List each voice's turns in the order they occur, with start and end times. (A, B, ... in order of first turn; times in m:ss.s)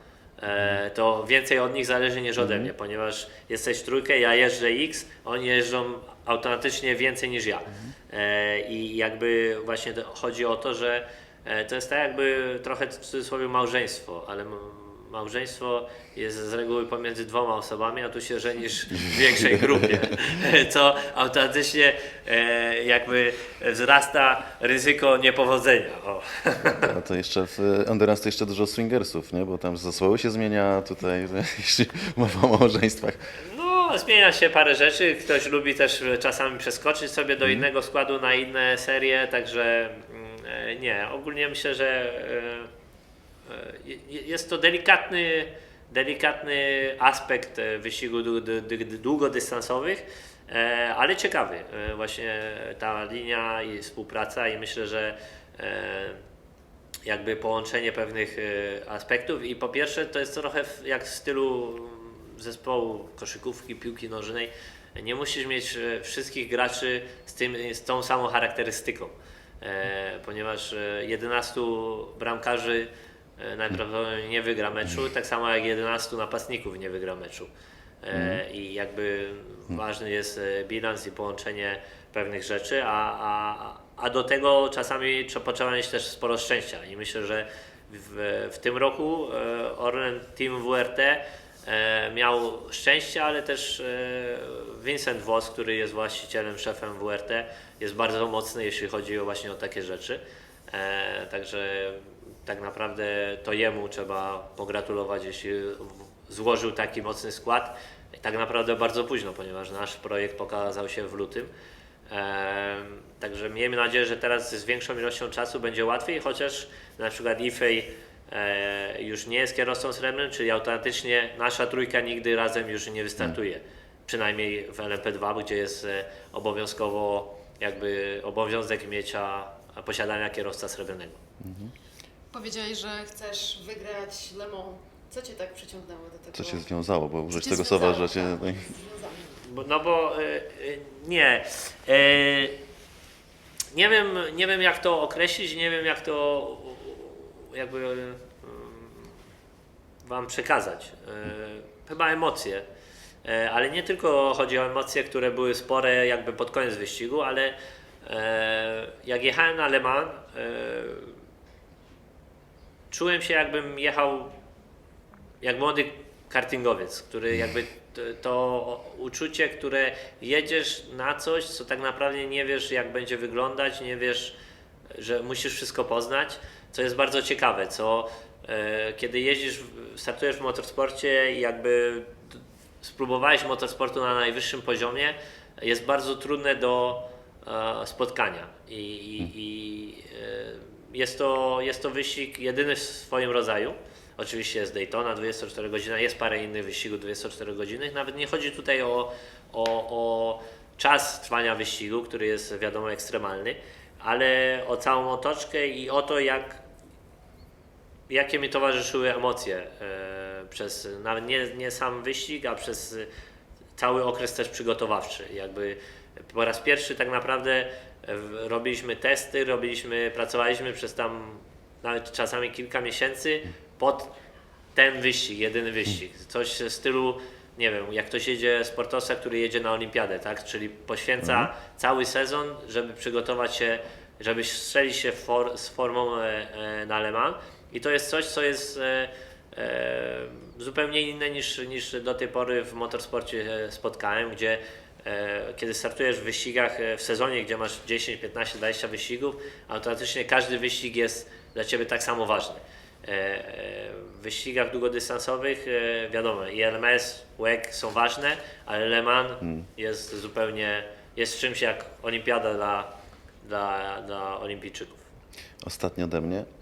0:00.4-0:26.9 A
0:02.4-0:02.7 B
0:19.1-0:20.0 B
0:26.6-0:33.2 B
0:33.4-0:42.7 A
0:43.5-0:56.2 A
0:57.0-1:17.5 A
1:18.0-1:51.5 A
1:18.1-1:18.4 B
1:52.1-2:11.2 A
2:11.4-2:11.7 B
2:12.3-2:16.6 C
2:16.3-2:18.8 B
2:17.3-2:19.4 C
2:19.4-2:22.6 A
2:23.7-2:29.2 A
2:30.0-2:32.6 A
2:33.2-2:41.2 A
2:42.9-2:44.3 A
2:45.4-2:54.4 A
2:54.9-3:26.6 A
3:28.1-3:33.1 A
3:33.8-3:44.1 A
3:44.7-4:25.1 A
3:51.2-3:51.5 B
4:25.6-4:26.5 B